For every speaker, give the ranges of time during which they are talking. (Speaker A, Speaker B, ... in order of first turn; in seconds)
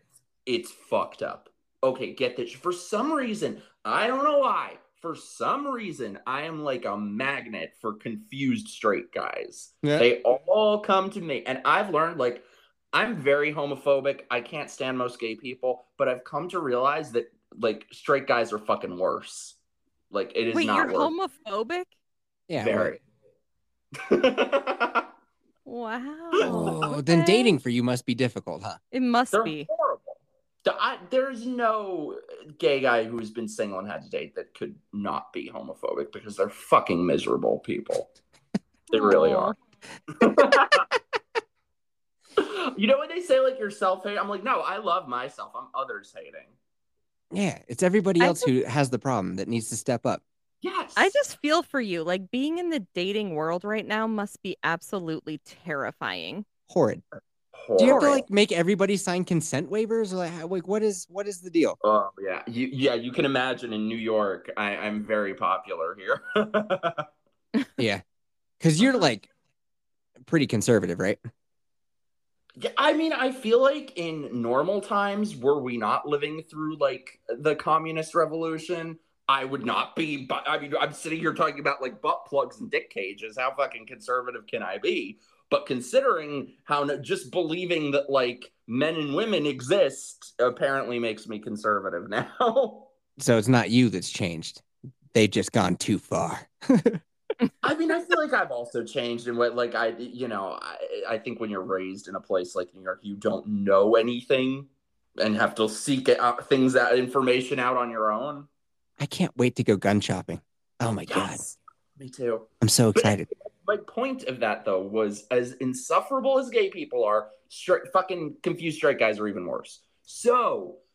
Speaker A: 0.5-19.6, 20.1-21.1, 22.6-23.0, 24.0-25.1, 26.4-26.9, 29.3-38.1, 38.9-39.5, 40.1-40.9, 42.4-46.5, 50.6-51.1, 57.5-58.2, 61.8-67.1, 72.6-92.9, 97.6-108.5, 111.1-120.8
Speaker B: 20.5-21.9, 25.7-27.5, 28.9-29.7, 38.9-39.5, 48.2-48.5, 51.0-56.5, 57.8-58.1
Speaker C: 22.5-22.9, 26.4-28.8, 47.3-50.2, 56.7-57.0, 57.8-61.8, 67.8-68.0, 68.6-69.3, 70.2-71.2, 93.2-97.0, 109.0-111.4, 112.6-113.3